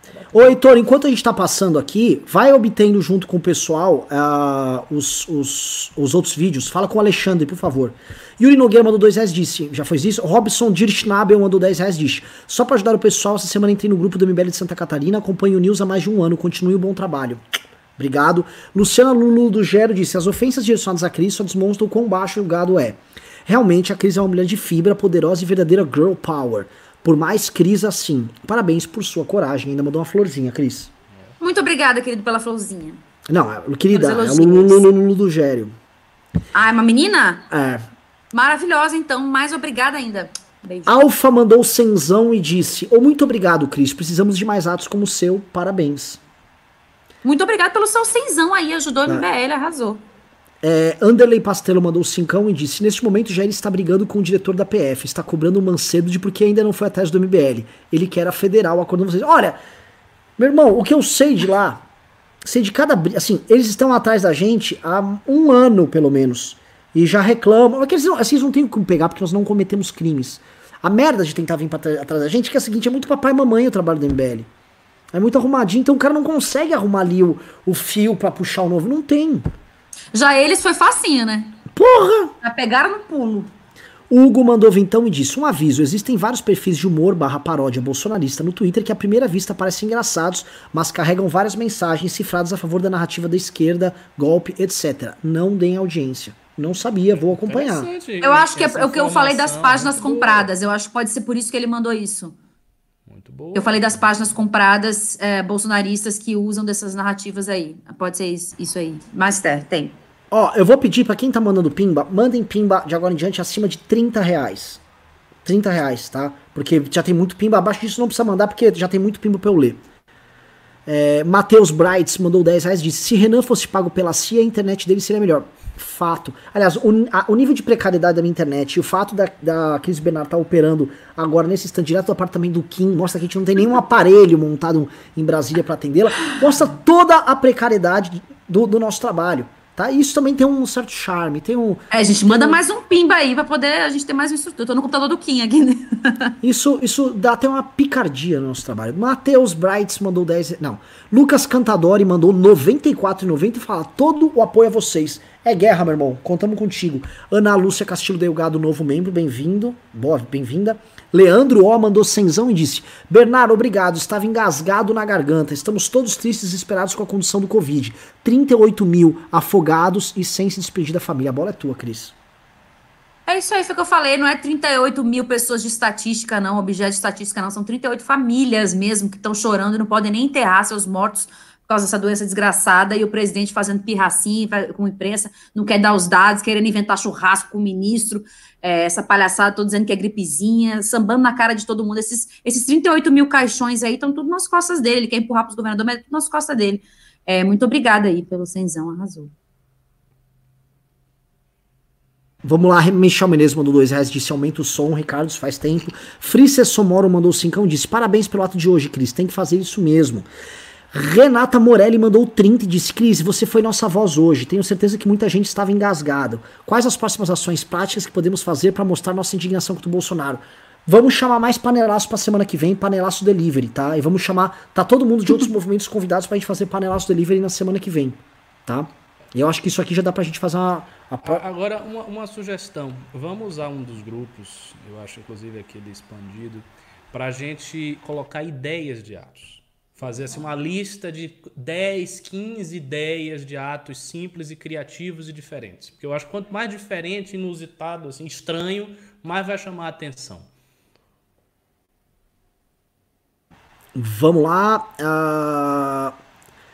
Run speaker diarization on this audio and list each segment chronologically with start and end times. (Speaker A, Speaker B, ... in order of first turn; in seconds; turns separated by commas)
Speaker A: 0.2-0.5, Speaker B: 0.3-30.9, Speaker C: 31.4-33.0, Speaker B: 33.3-35.7, Speaker C: 33.9-34.9, Speaker C: 36.5-37.5, Speaker B: 37.5-37.8, Speaker C: 38.3-40.9, Speaker B: 40.9-46.2, Speaker C: 47.2-50.0, Speaker B: 50.6-59.6, Speaker B: 60.4-61.9, Speaker B: 62.5-74.5, Speaker B: 75.1-79.5, Speaker C: 80.1-81.6, Speaker B: 81.7-82.3, Speaker C: 82.4-83.5, Speaker B: 84.1-97.9, Speaker A: 97.1-100.5, Speaker C: 98.2-102.4, Speaker A: 103.1-104.4, Speaker C: 103.5-110.0, Speaker B: 110.3-114.8, Speaker B: 115.5-119.8, Speaker B: 120.9-142.6, Speaker C: 141.9-146.4, Speaker B: 146.4-172.2, Speaker C: 173.3-199.3, Speaker B: 202.4-210.3, Speaker B: 210.9-231.4, Speaker A: 231.2-250.5, Speaker B: 253.9-256.2